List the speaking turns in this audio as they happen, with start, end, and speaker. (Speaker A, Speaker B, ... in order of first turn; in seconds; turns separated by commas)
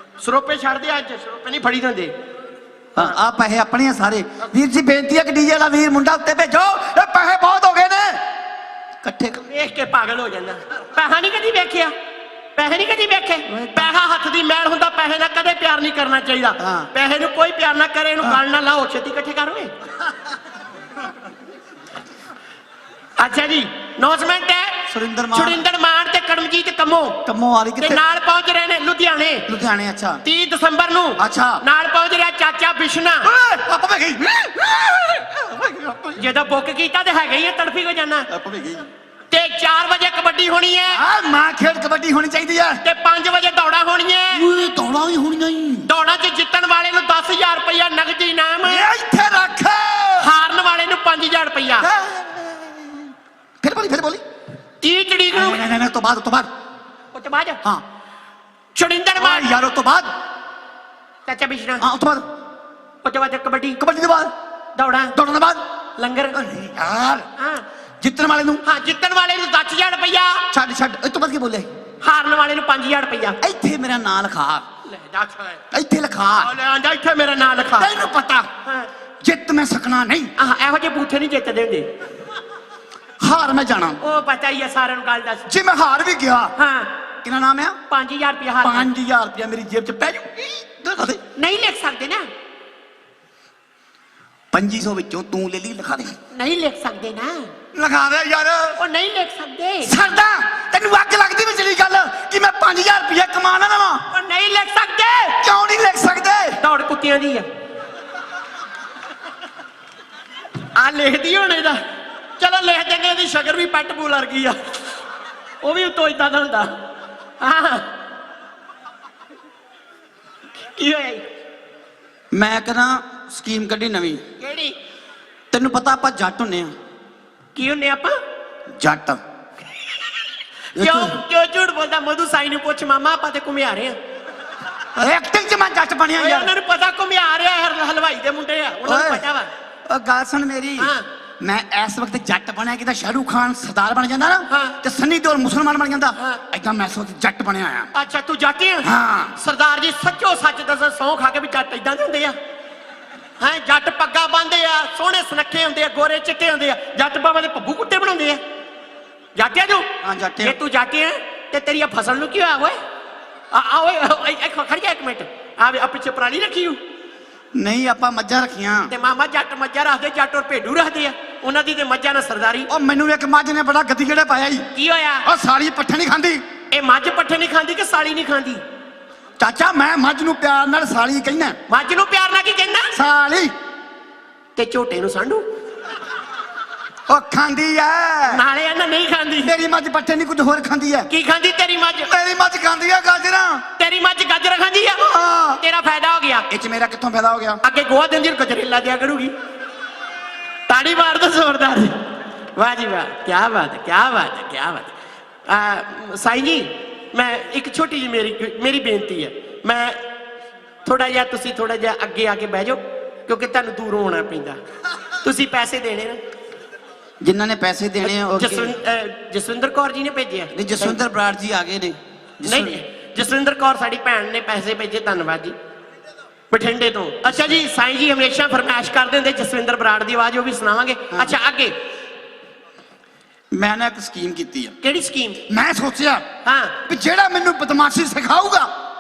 Speaker A: 0.2-2.1, Speaker B: 3.0-8.2, Speaker B: 9.0-9.5, Speaker A: 9.5-11.9, Speaker A: 12.6-19.7, Speaker B: 13.5-13.9, Speaker B: 16.6-16.9, Speaker A: 23.2-27.2, Speaker B: 24.9-25.6, Speaker B: 27.3-28.0, Speaker A: 27.8-29.5, Speaker B: 29.5-30.2, Speaker A: 30.2-33.3, Speaker B: 31.2-31.6, Speaker B: 33.2-36.2, Speaker A: 36.2-38.3, Speaker B: 38.3-38.9, Speaker A: 39.3-41.0, Speaker B: 40.9-42.8, Speaker A: 42.8-44.5, Speaker B: 44.3-45.9, Speaker A: 45.9-48.9, Speaker B: 48.6-50.4, Speaker A: 50.2-51.9, Speaker B: 51.8-53.1, Speaker B: 53.6-54.2, Speaker A: 54.8-55.6, Speaker B: 55.3-56.5, Speaker A: 57.1-57.6, Speaker A: 58.8-59.5, Speaker B: 59.2-60.1, Speaker A: 61.3-61.9, Speaker B: 61.8-62.2, Speaker A: 63.0-63.8, Speaker B: 63.8-64.3, Speaker A: 64.8-65.2, Speaker B: 65.2-65.6, Speaker A: 66.0-66.4, Speaker B: 66.3-67.3, Speaker A: 67.4-67.7, Speaker B: 68.0-68.6, Speaker A: 68.6-70.5, Speaker B: 70.5-71.7, Speaker A: 72.0-73.4, Speaker B: 73.4-74.6, Speaker A: 74.8-75.6, Speaker B: 75.7-76.5, Speaker A: 76.4-78.0, Speaker B: 77.7-78.5, Speaker B: 79.2-80.3, Speaker A: 80.4-81.9, Speaker B: 83.2-84.0, Speaker A: 84.0-85.5, Speaker B: 85.5-86.5, Speaker A: 86.6-86.9, Speaker B: 87.2-87.8, Speaker A: 87.9-88.9, Speaker B: 88.6-91.2, Speaker A: 91.4-92.3, Speaker B: 94.5-96.2, Speaker A: 96.3-97.5, Speaker B: 97.7-98.8, Speaker A: 98.8-100.0, Speaker B: 99.8-104.0, Speaker A: 104.1-105.4, Speaker B: 105.4-106.6, Speaker A: 106.6-107.5, Speaker A: 110.8-111.8, Speaker A: 112.4-114.9, Speaker A: 115.6-116.8, Speaker A: 117.4-117.9, Speaker A: 120.8-121.2, Speaker B: 122.3-124.2, Speaker A: 124.4-124.8, Speaker B: 125.5-126.7, Speaker A: 127.5-128.2, Speaker B: 128.8-129.2, Speaker A: 129.8-134.0, Speaker B: 130.8-131.2, Speaker B: 135.0-136.5, Speaker A: 136.2-139.5, Speaker B: 138.8-139.3, Speaker B: 139.9-147.9, Speaker A: 140.8-141.1, Speaker A: 144.5-144.8, Speaker A: 146.2-146.4, Speaker A: 147.9-152.4, Speaker B: 148.8-149.4, Speaker A: 153.4-158.4, Speaker A: 159.4-159.9, Speaker B: 160.0-160.6, Speaker A: 160.4-162.8, Speaker A: 163.5-166.8, Speaker B: 167.6-168.9, Speaker A: 168.9-172.7, Speaker B: 172.7-174.7, Speaker A: 174.7-175.3, Speaker B: 175.2-176.4, Speaker A: 176.7-178.6, Speaker B: 179.4-181.6, Speaker A: 181.7-182.9, Speaker B: 182.9-183.5, Speaker A: 184.6-185.4, Speaker B: 187.1-188.4, Speaker A: 188.3-189.5, Speaker B: 189.4-191.1, Speaker A: 191.1-192.1, Speaker B: 192.1-193.6, Speaker A: 193.8-195.0, Speaker B: 195.0-195.6, Speaker A: 195.6-196.5, Speaker B: 196.5-197.6, Speaker A: 197.6-199.3, Speaker A: 200.7-204.9, Speaker A: 205.5-210.0, Speaker A: 210.8-214.6, Speaker A: 215.2-216.2, Speaker B: 217.2-218.7, Speaker A: 218.0-221.0, Speaker B: 220.5-222.8, Speaker A: 222.4-225.6, Speaker A: 226.5-231.8, Speaker B: 227.3-227.6, Speaker B: 231.1-231.4, Speaker B: 233.5-234.8, Speaker A: 234.8-235.4, Speaker B: 235.5-236.2, Speaker A: 236.4-236.8, Speaker B: 236.8-238.7